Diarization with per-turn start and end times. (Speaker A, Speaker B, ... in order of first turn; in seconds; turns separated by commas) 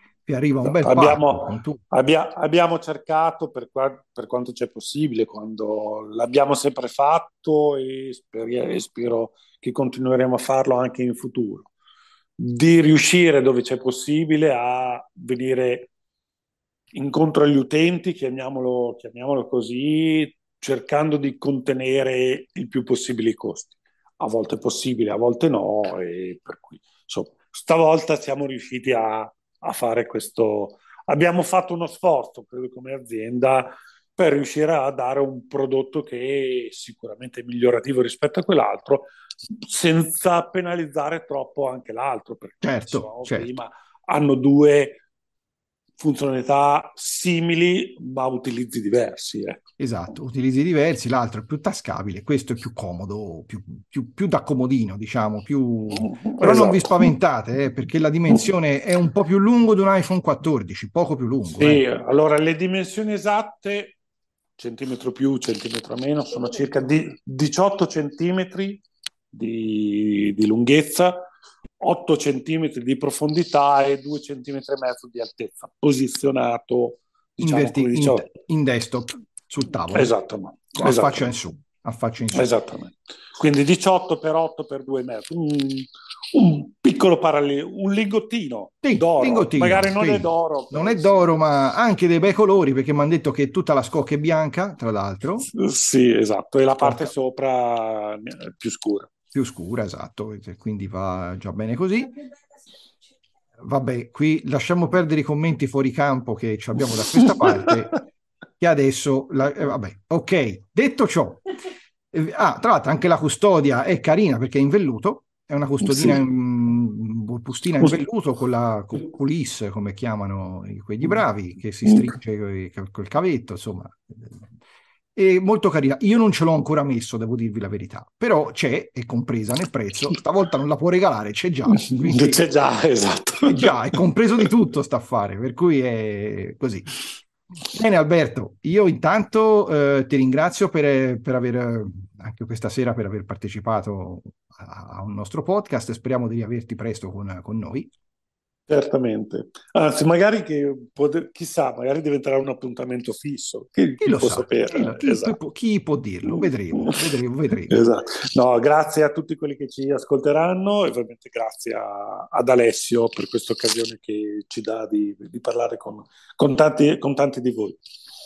Speaker A: 0.3-1.8, Speaker B: 0.6-11.7, Speaker B: 12.4-15.9, Speaker B: 16.9-45.0, Speaker A: 42.6-43.5, Speaker B: 46.0-49.6, Speaker A: 49.8-61.8, Speaker B: 56.0-57.1, Speaker B: 61.5-64.0, Speaker B: 64.6-71.3, Speaker B: 71.8-78.3, Speaker A: 77.4-80.2, Speaker B: 79.9-81.3, Speaker A: 80.8-82.5, Speaker B: 82.3-91.3, Speaker A: 88.8-95.5, Speaker B: 95.5-99.1, Speaker A: 96.8-97.1, Speaker A: 99.3-102.2, Speaker A: 103.6-108.0, Speaker B: 107.2-107.8, Speaker A: 108.6-111.5, Speaker A: 112.1-124.5, Speaker B: 115.8-116.2, Speaker A: 125.2-132.4, Speaker B: 131.7-134.0, Speaker A: 133.4-136.9, Speaker A: 137.7-147.9, Speaker B: 148.7-155.4, Speaker A: 154.0-157.8, Speaker B: 156.3-156.9, Speaker B: 157.7-167.8